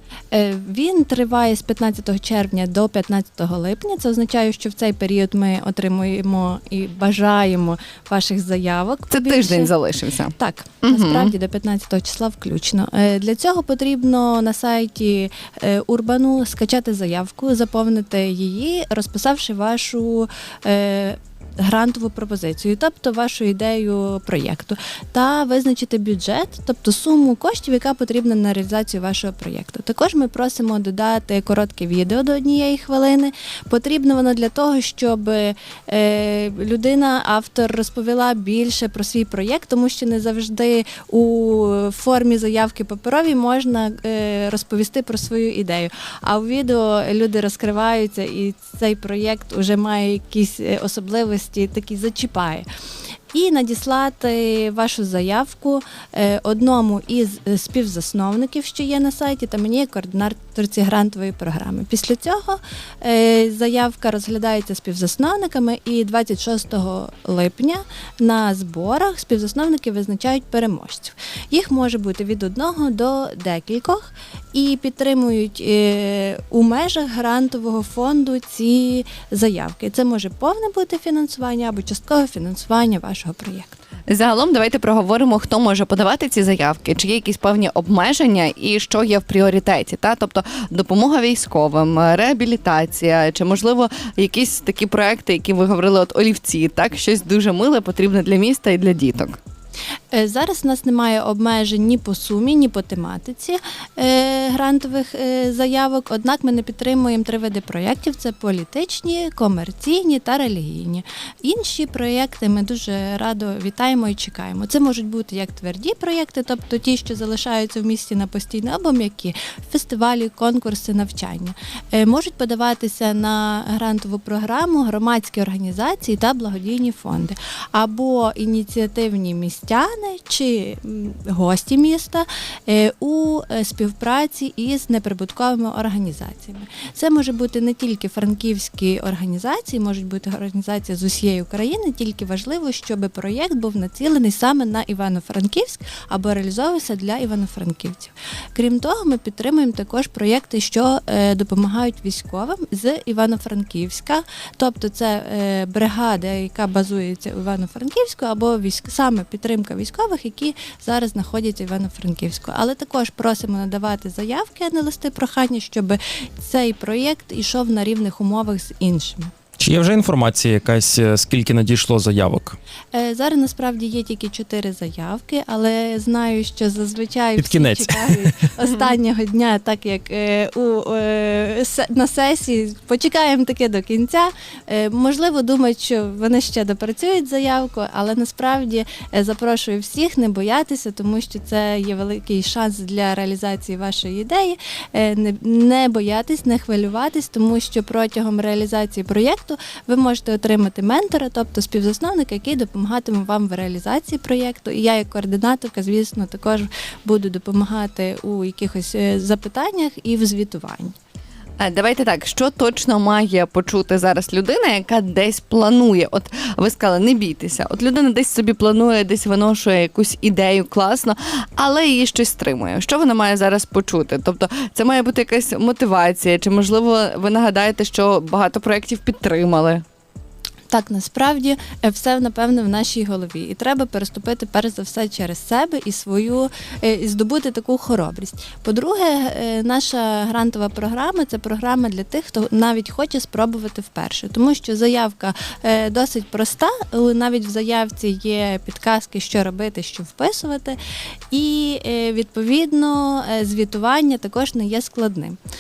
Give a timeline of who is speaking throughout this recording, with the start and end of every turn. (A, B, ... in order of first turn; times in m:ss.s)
0:00.3-0:09.7 A
0:09.1-0:11.3 B
0:10.3-0:52.6 A
0:53.3-1:23.8 A
1:24.1-1:39.4 B
1:40.1-2:49.3 A
2:49.6-2:52.6 C
2:52.9-3:31.0 A
2:57.4-2:58.4 C
3:31.6-3:49.8 B
3:50.7-4:10.8 A
4:11.3-4:15.4 A